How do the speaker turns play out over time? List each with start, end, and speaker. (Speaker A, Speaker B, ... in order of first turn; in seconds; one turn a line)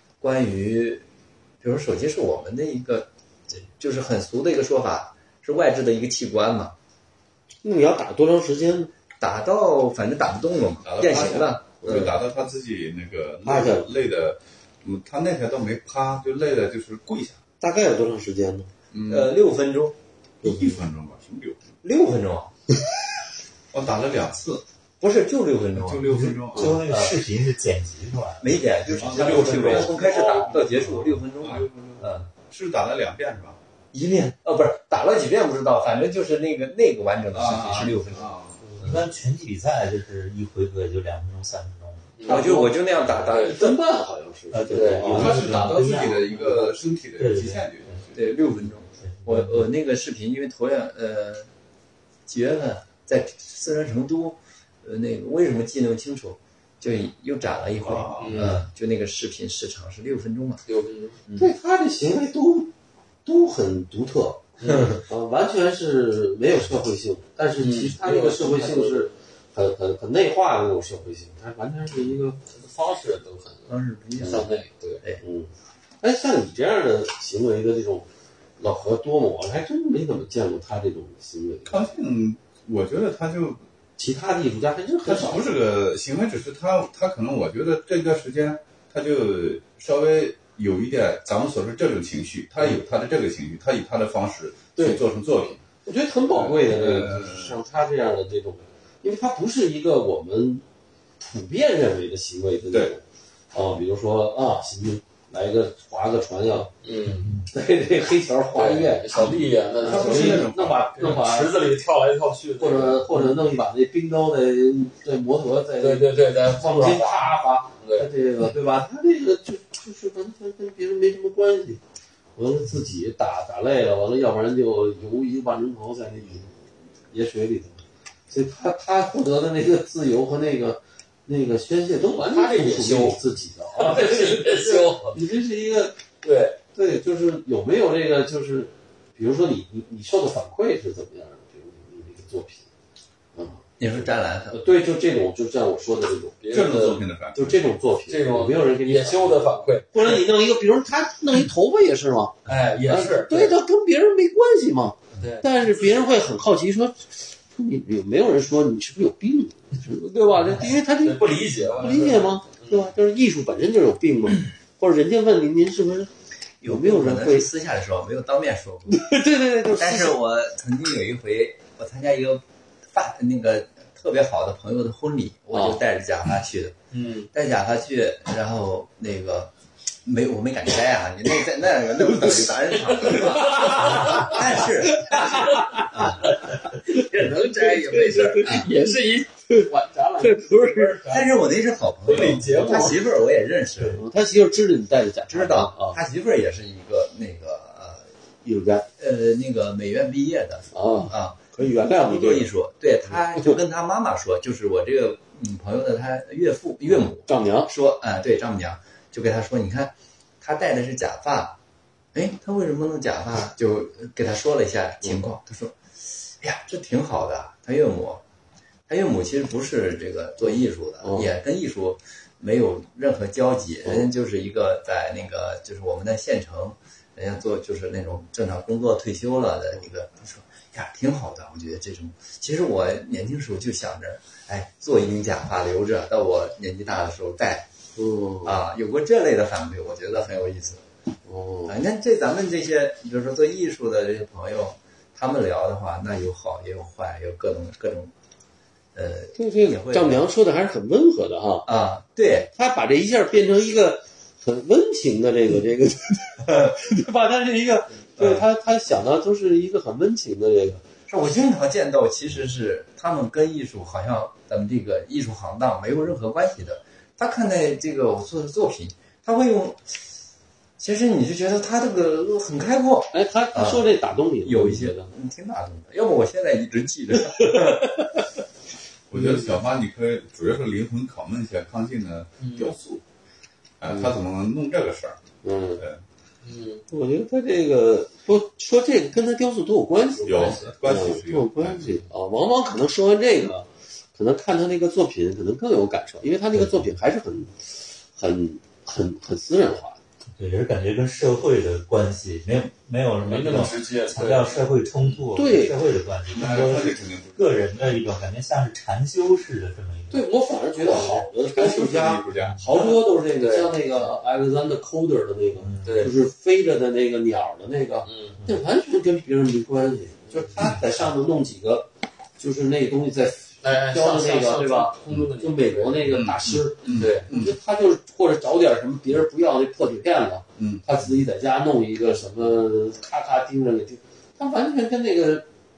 Speaker A: 0.2-1.0
Speaker A: 1.6-6.7
Speaker B: 7.6-8.9
Speaker A: 9.2-12.1
Speaker C: 10.8-17.4
Speaker B: 11.8-12.2
Speaker B: 13.4-13.9
Speaker B: 17.6-18.7
Speaker C: 18.9-19.3
Speaker A: 19.1-20.0
Speaker C: 20.4-21.7
Speaker A: 21.8-22.5
Speaker C: 23.7-24.6
Speaker A: 25.0-27.2
Speaker C: 25.7-26.9
Speaker D: 26.1-31.2
Speaker A: 28.4-32.3
Speaker C: 29.0-30.4
Speaker E: 30.0-30.6
Speaker C: 31.4-33.6
Speaker A: 33.9-39.0
Speaker C: 37.3-38.8
Speaker D: 38.8-42.1
Speaker E: 42.2-42.5
Speaker A: 42.2-43.7
Speaker B: 42.2-45.9
Speaker E: 43.3-43.7
Speaker D: 44.5-48.0
Speaker E: 44.7-45.3
Speaker C: 45.1-48.2
Speaker A: 48.1-51.5
Speaker D: 48.5-49.6
Speaker A: 52.3-60.6
Speaker C: 57.8-58.6
Speaker E: 58.2-58.6
Speaker E: 60.7-61.1
Speaker B: 61.4-62.7
Speaker B: 63.2-72.4
Speaker E: 64.6-64.9
Speaker A: 64.6-65.0
Speaker E: 67.6-69.1
Speaker E: 72.5-75.0
Speaker A: 73.7-75.2
Speaker B: 75.2-75.5
Speaker B: 76.0-78.1
Speaker B: 78.6-81.8
Speaker C: 81.7-83.6
Speaker B: 84.0-85.6
Speaker C: 85.0-95.6
Speaker B: 95.8-100.6
Speaker C: 96.3-97.6
Speaker B: 101.2-106.7
Speaker E: 106.8-107.4
Speaker B: 107.5-111.5
Speaker E: 108.5-113.3
Speaker C: 109.2-111.2
Speaker B: 112.6-121.8
Speaker E: 115.8-118.1
Speaker B: 122.4-126.5
Speaker B: 127.1-136.1
Speaker E: 132.2-133.2
Speaker E: 133.7-135.2
Speaker E: 136.2-136.6
Speaker B: 136.7-142.7
Speaker B: 143.3-146.4
Speaker A: 143.8-144.6
Speaker E: 146.4-147.0
Speaker C: 146.5-147.6
Speaker B: 147.3-166.1
Speaker E: 148.1-150.2
Speaker E: 152.4-153.6
Speaker E: 155.2-155.6
Speaker E: 160.6-162.8
Speaker A: 166.6-169.1
Speaker B: 166.6-167.5
Speaker B: 168.9-170.2
Speaker A: 169.7-172.4
Speaker A: 172.9-176.7
Speaker E: 176.9-177.3
Speaker A: 177.3-179.5
Speaker A: 180.0-186.4
Speaker E: 183.0-184.4
Speaker B: 184.0-184.4
Speaker B: 184.9-186.3
Speaker E: 185.2-191.4
Speaker B: 186.9-188.7
Speaker B: 190.2-191.1
Speaker A: 191.1-194.0
Speaker E: 192.0-193.1
Speaker B: 192.2-192.9
Speaker B: 193.9-196.0
Speaker A: 195.3-198.0
Speaker B: 198.4-198.9
Speaker A: 199.0-211.6
Speaker B: 200.7-202.5
Speaker B: 203.1-203.6
Speaker B: 206.8-207.7
Speaker A: 212.1-218.2
Speaker A: 218.9-237.7
Speaker B: 221.0-221.3
Speaker B: 237.9-238.6
Speaker A: 238.4-240.8
Speaker B: 241.2-241.8
Speaker A: 241.7-248.1
Speaker A: 248.9-250.2
Speaker B: 249.3-251.7
Speaker A: 251.7-252.5
Speaker B: 252.5-260.8
Speaker A: 258.2-258.4
Speaker A: 261.1-270.0
Speaker A: 270.8-273.9
Speaker B: 273.1-275.1
Speaker A: 274.4-278.0
Speaker B: 277.3-278.1
Speaker C: 279.1-283.0
Speaker B: 279.1-279.5
Speaker E: 282.4-282.7
Speaker C: 283.8-285.2
Speaker B: 285.4-285.8
Speaker E: 286.4-286.8
Speaker B: 286.9-300.0
Speaker C: 290.2-292.0
Speaker D: 300.4-310.3
Speaker E: 303.2-305.2
Speaker B: 305.3-305.8
Speaker C: 306.3-307.8
Speaker B: 310.1-335.5
Speaker C: 310.9-312.6
Speaker E: 312.6-313.7
Speaker D: 315.6-316.1
Speaker E: 315.8-316.1
Speaker E: 318.0-318.4
Speaker E: 323.6-326.1
Speaker C: 326.1-327.6
Speaker E: 326.9-327.3
Speaker C: 330.6-330.9